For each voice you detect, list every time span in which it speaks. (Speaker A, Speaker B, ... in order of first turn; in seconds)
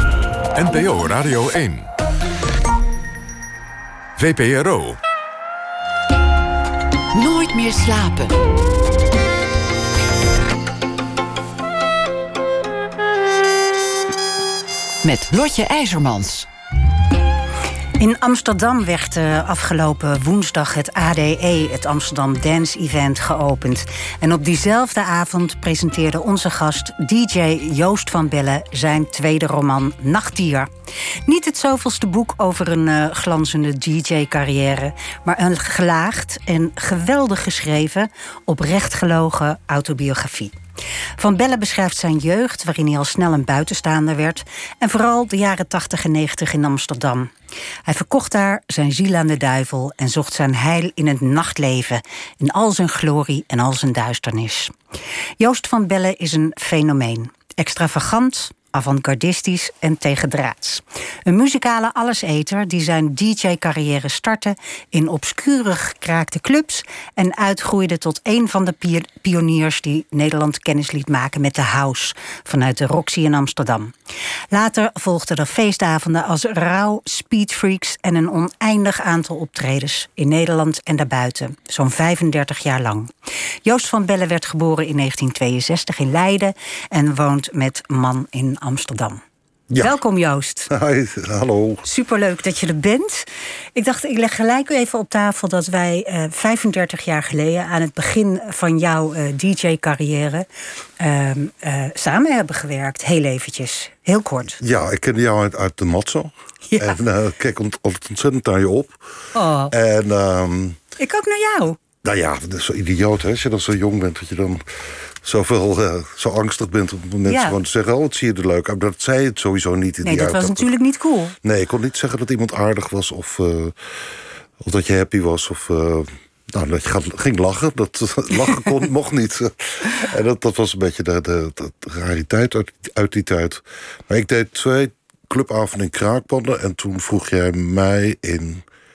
Speaker A: 0.5-1.9, 4.2-5.0
Speaker B: 7.1-8.4, 15.0-16.5
Speaker C: 18.0-30.7, 31.2-40.5, 41.2-47.3, 47.9-54.7, 55.4-73.9, 74.5-83.1, 83.6-89.2, 89.8-90.7, 91.8-100.5, 101.0-104.6, 106.7-106.9, 109.3-109.7, 111.0-111.8, 117.2-117.6, 120.0-121.3
Speaker D: 89.7-90.0, 90.7-91.8, 104.6-109.0, 109.7-110.8, 112.0-120.7, 121.4-138.6